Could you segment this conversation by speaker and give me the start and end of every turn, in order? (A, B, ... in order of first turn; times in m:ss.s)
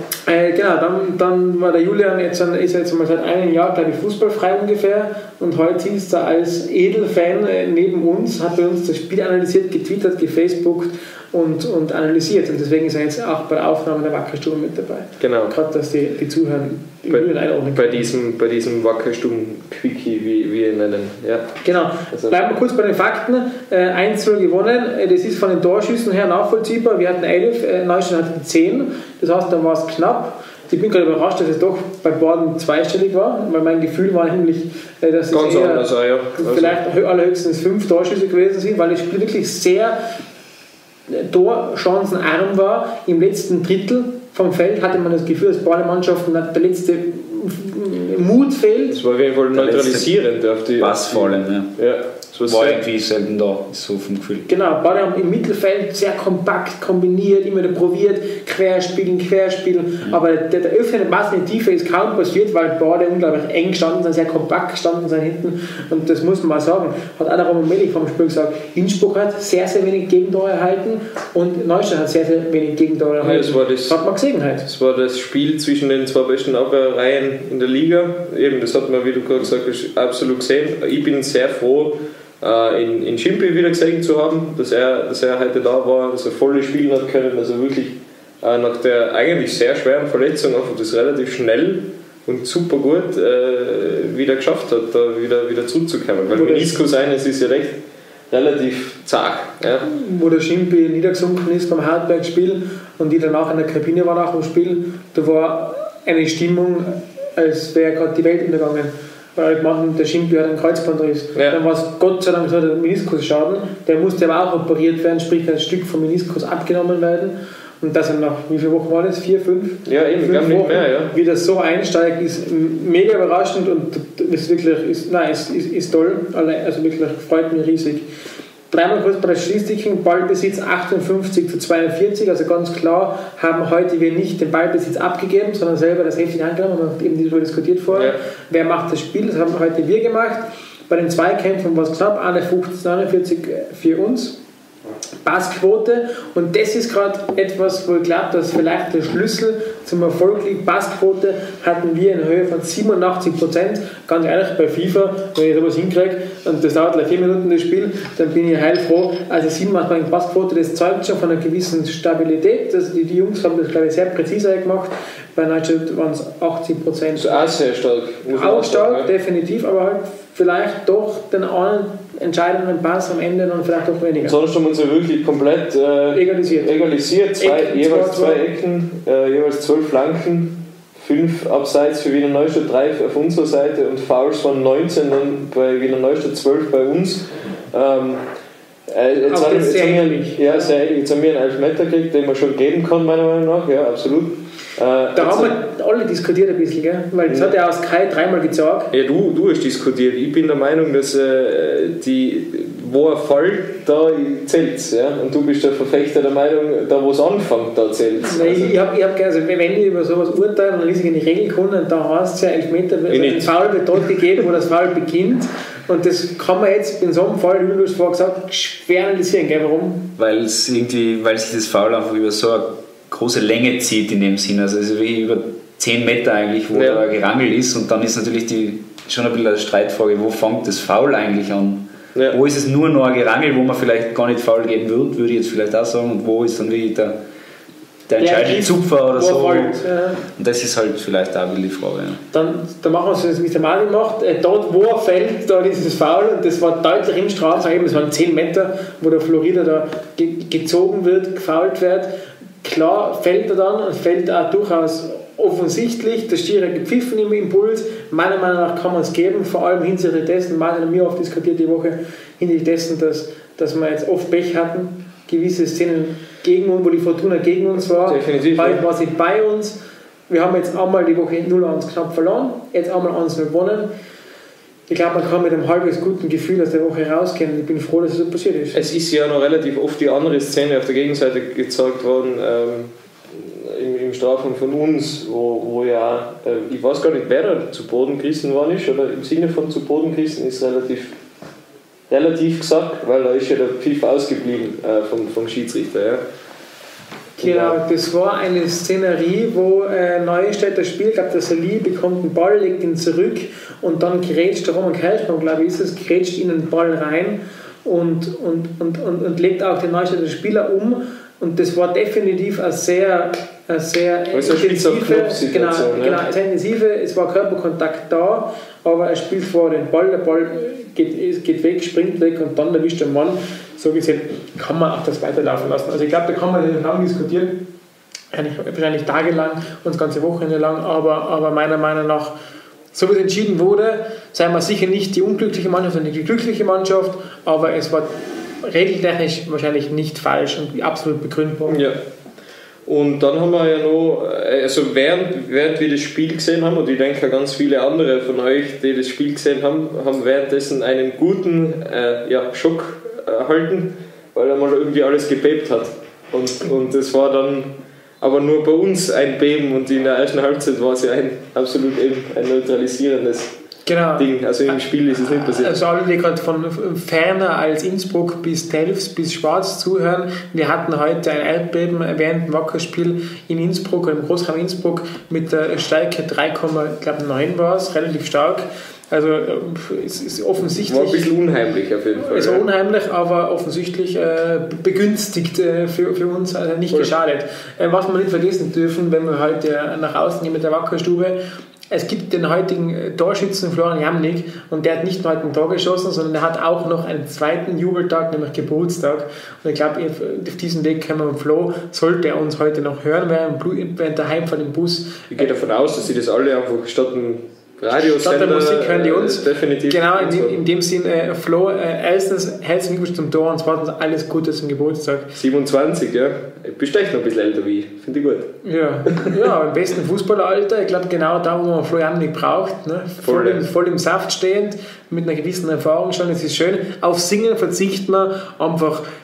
0:00.2-0:18.1 A
0:15.2-0:15.6 B
0:17.1-0:21.6 B
0:21.6-0:40.0 A
0:22.1-0:22.4 B
0:35.3-0:36.8 B
0:41.1-0:49.0 A
0:48.9-0:52.8 B
0:49.5-0:51.7 C
0:52.4-0:54.4 C
0:54.4-1:14.6 A
1:13.2-1:14.0 B
1:14.6-1:37.8 B
1:36.3-1:36.8 A
1:38.3-1:39.8 B
1:39.8-2:08.0 A
1:59.8-2:01.1 B
2:08.7-2:24.4 A
2:25.2-2:47.5 A
2:47.1-2:49.1 B
2:48.3-2:54.4 A
2:54.2-3:08.2 B
2:56.1-2:58.4 A
3:08.9-3:15.5 B
3:09.3-3:10.7 A
3:15.1-3:18.9 A
3:17.3-3:17.5 B
3:18.9-3:28.8 B
3:28.2-3:40.1 A
3:33.1-3:33.7 B
3:40.2-3:57.2 C
3:46.7-3:47.0 B
3:58.1-3:59.8 C
3:58.2-4:00.2 A
4:00.4-4:02.2 C
4:02.3-4:12.1 A
4:12.6-4:29.8 A
4:28.0-4:28.8 B
4:30.3-4:33.9 A
4:34.9-4:38.8 A
4:38.7-4:51.1 B
4:52.1-4:56.2 B
4:57.4-5:27.6 A
4:57.4-4:57.8 B
5:14.3-5:16.2 B
5:28.3-5:32.3 A
5:32.9-5:38.1 A
5:38.6-5:41.8 A
5:41.7-5:42.0 B
5:42.9-5:57.7 B
5:58.2-6:03.5 B
6:03.8-6:21.3 A
6:04.2-6:05.8 B
6:20.8-6:22.6 B
6:22.2-6:31.4 A
6:31.9-6:45.3 A
6:45.3-6:50.6 B
6:47.9-6:55.3 A
6:55.3-6:58.5 B
6:58.6-7:09.0 A
7:03.2-7:03.6 B